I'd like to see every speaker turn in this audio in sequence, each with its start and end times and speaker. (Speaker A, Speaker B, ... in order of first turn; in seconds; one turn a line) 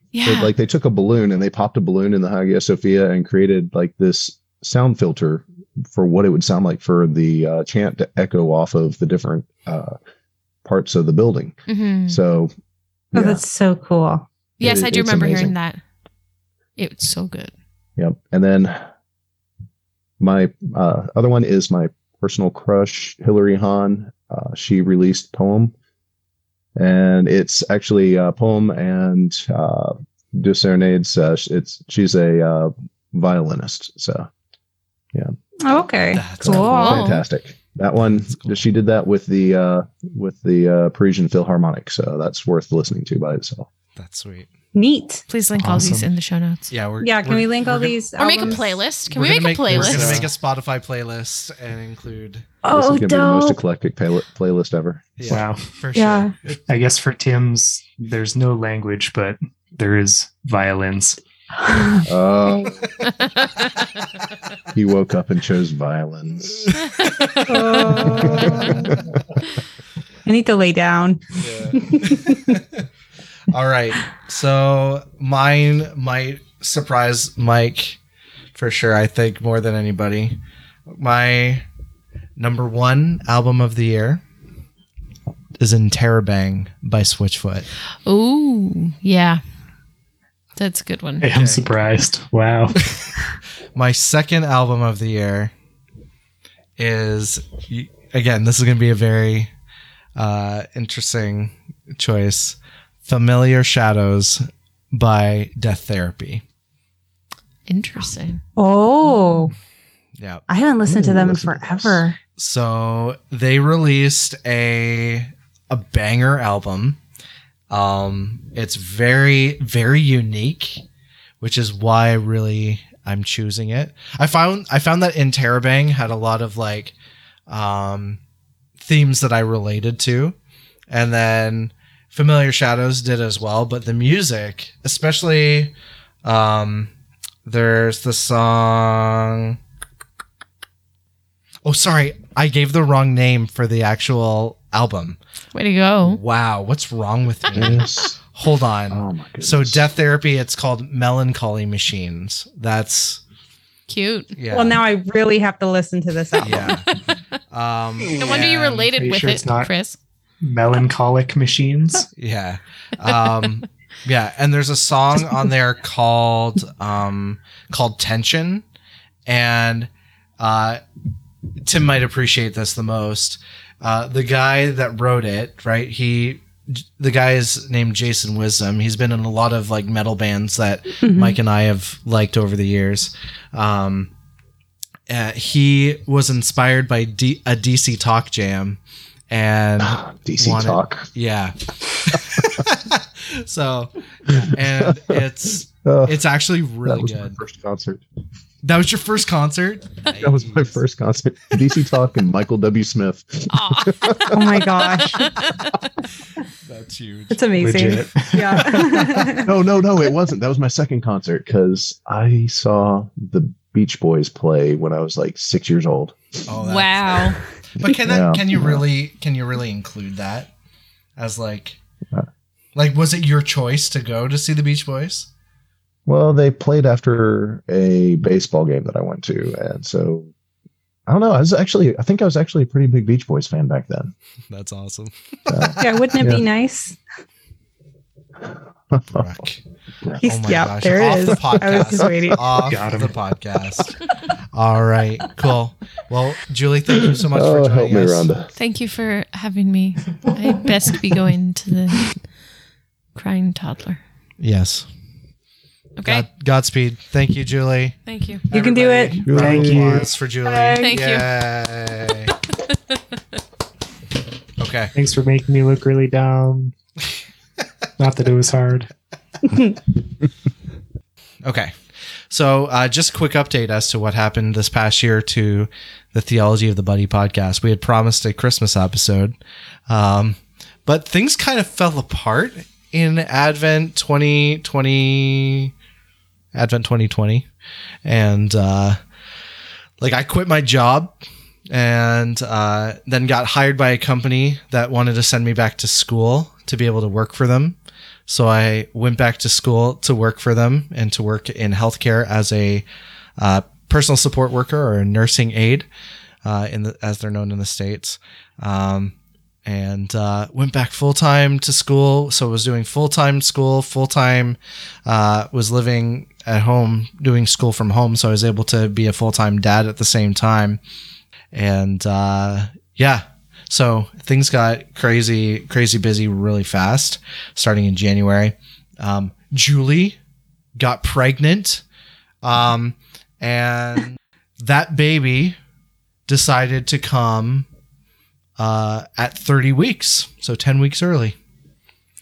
Speaker A: 0.1-0.5
Speaker B: 0.2-10.0
Speaker B: 10.6-11.6
Speaker A: 11.7-12.2
Speaker B: 12.1-12.5
Speaker B: 13.1-13.4
Speaker C: 13.1-14.2
Speaker A: 14.6-15.8
Speaker B: 14.6-15.5
Speaker A: 16.8-17.5
Speaker B: 18.0-18.8
Speaker B: 20.2-25.7
Speaker B: 26.8-34.3
Speaker C: 35.6-36.2
Speaker D: 36.1-37.0
Speaker B: 36.4-43.7
Speaker A: 36.4-37.2
Speaker D: 38.2-38.6
Speaker D: 43.9-44.5
Speaker C: 44.7-45.2
Speaker A: 45.3-46.7
Speaker E: 45.6-46.1
Speaker D: 46.7-52.5
Speaker C: 47.0-48.8
Speaker A: 48.2-50.2
Speaker B: 49.7-50.2
Speaker C: 52.6-53.6
Speaker B: 52.7-55.0
Speaker D: 55.2-56.6
Speaker E: 55.3-55.6
Speaker C: 55.9-56.3
Speaker E: 56.7-61.2
Speaker C: 61.7-62.0
Speaker B: 62.0-62.8
Speaker B: 64.7-66.8
Speaker A: 66.9-67.4
Speaker D: 67.0-68.6
Speaker C: 67.5-69.0
Speaker B: 68.0-69.0
Speaker C: 70.2-72.4
Speaker D: 71.4-72.8
Speaker D: 73.5-78.0
Speaker D: 78.5-81.7
Speaker D: 82.3-84.2
Speaker D: 85.6-87.7
Speaker A: 88.0-89.4
Speaker A: 90.5-91.3
Speaker E: 91.2-93.0
Speaker D: 91.3-91.6
Speaker D: 93.7-95.5
Speaker D: 96.8-99.5
Speaker D: 100.2-106.4
Speaker A: 107.7-108.4
Speaker C: 108.6-109.5
Speaker D: 110.2-110.4
Speaker C: 110.5-112.2
Speaker B: 110.9-112.0
Speaker D: 112.3-117.0
Speaker D: 117.7-120.8
Speaker D: 121.4-126.9
Speaker D: 127.5-128.2
Speaker D: 128.8-130.3
Speaker D: 130.9-136.9
Speaker D: 137.4-139.6
Speaker D: 141.6-145.2
Speaker A: 145.5-146.2
Speaker D: 146.0-153.2
Speaker B: 147.5-148.2
Speaker B: 148.9-149.8
Speaker A: 153.9-154.3
Speaker D: 154.3-154.8
Speaker C: 154.5-156.8
Speaker D: 156.4-156.9
Speaker D: 157.5-158.9
Speaker A: 158.1-160.0
Speaker E: 159.0-159.7
Speaker E: 160.4-162.1
Speaker D: 162.2-168.6
Speaker D: 169.2-170.8
Speaker D: 171.6-184.1
Speaker C: 181.0-181.4
Speaker D: 185.1-197.4
Speaker B: 189.8-191.1
Speaker B: 194.3-195.2
Speaker B: 195.8-196.2
Speaker B: 196.8-198.0
Speaker D: 198.6-200.8
Speaker B: 200.2-204.4
Speaker A: 203.5-205.9
Speaker C: 204.3-205.3
Speaker D: 206.7-207.4
Speaker C: 207.3-209.5
Speaker E: 207.6-209.3
Speaker B: 209.4-216.2
Speaker D: 216.5-220.5
Speaker A: 216.6-217.4
Speaker B: 218.0-218.8
Speaker D: 221.2-221.8
Speaker D: 222.8-225.3
Speaker B: 226.1-230.3
Speaker B: 231.1-234.1
Speaker D: 234.5-236.2
Speaker B: 235.5-236.4
Speaker C: 235.8-237.0
Speaker B: 238.9-239.2
Speaker D: 239.1-239.6
Speaker C: 240.2-242.4
Speaker D: 240.2-248.3
Speaker E: 242.6-243.2
Speaker B: 247.1-248.5
Speaker A: 248.5-252.2
Speaker A: 253.1-254.0
Speaker D: 254.4-254.9
Speaker A: 256.0-256.3
Speaker D: 256.0-258.0
Speaker A: 258.1-258.5
Speaker D: 258.5-262.3
Speaker C: 258.5-259.2
Speaker B: 259.2-260.1
Speaker E: 259.3-260.1
Speaker C: 260.4-260.9
Speaker A: 260.8-261.3
Speaker D: 264.6-264.9
Speaker E: 264.9-266.7
Speaker E: 268.0-268.9
Speaker D: 271.4-271.8
Speaker D: 272.3-279.4
Speaker D: 279.9-285.7
Speaker D: 286.5-287.5
Speaker D: 288.0-289.0
Speaker D: 290.0-291.2
Speaker D: 291.7-302.9
Speaker D: 303.4-305.9
Speaker D: 306.4-320.8
Speaker D: 321.5-330.2
Speaker D: 330.8-331.8
Speaker D: 332.4-335.6
Speaker D: 336.3-337.7
Speaker D: 338.6-341.4